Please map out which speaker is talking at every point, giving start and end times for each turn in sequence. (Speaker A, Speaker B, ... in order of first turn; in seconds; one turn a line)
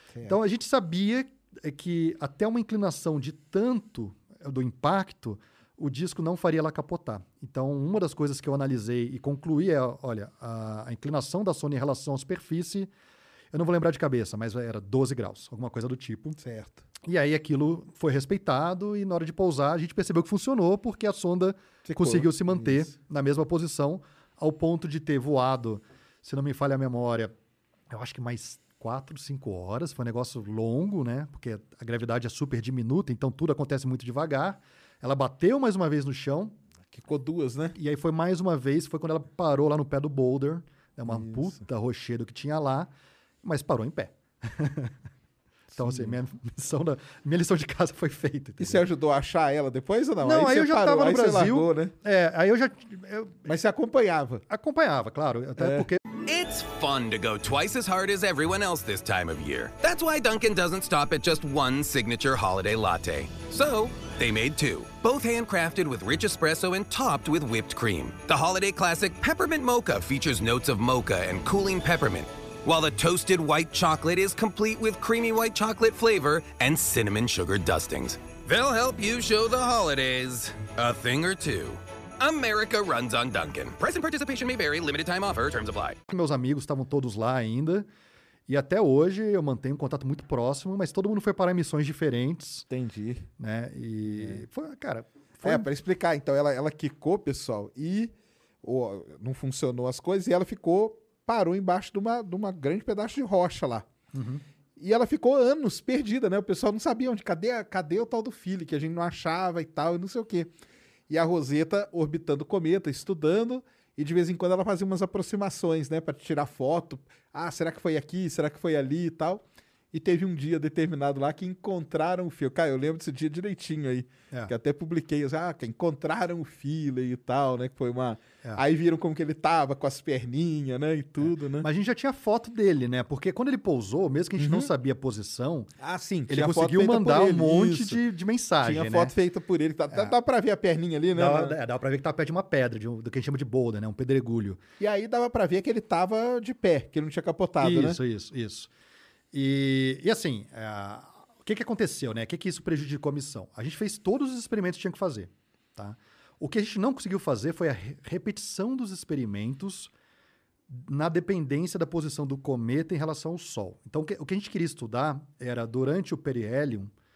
Speaker A: 0.2-12.9
Speaker A: 13.5-16.4
Speaker B: 16.4-16.8
Speaker A: 17.0-27.3
Speaker B: 21.9-22.9
Speaker A: 27.9-36.5
Speaker B: 36.9-37.8
Speaker A: 37.8-42.9
Speaker B: 41.1-41.6
Speaker A: 43.4-44.9
Speaker B: 45.7-46.2
Speaker A: 45.8-48.8
Speaker B: 48.6-51.9
Speaker A: 50.2-53.4
Speaker B: 53.5-54.4
Speaker A: 54.5-56.0
Speaker B: 55.6-55.9
Speaker C: 56.2-86.0
Speaker A: 86.1-87.9
Speaker A: 88.5-92.7
Speaker B: 92.7-93.3
Speaker A: 93.4-95.7
Speaker B: 94.2-94.4
Speaker B: 95.4-103.8
Speaker A: 104.1-104.4
Speaker B: 104.8-110.5
Speaker B: 111.1-131.7
Speaker A: 131.2-135.7
Speaker B: 134.4-134.7
Speaker B: 135.8-138.0
Speaker A: 136.3-139.1
Speaker B: 138.6-141.6
Speaker A: 139.9-140.2
Speaker A: 141.1-144.6
Speaker B: 144.8-148.0
Speaker A: 147.6-148.7
Speaker A: 149.3-159.9
Speaker A: 160.7-166.9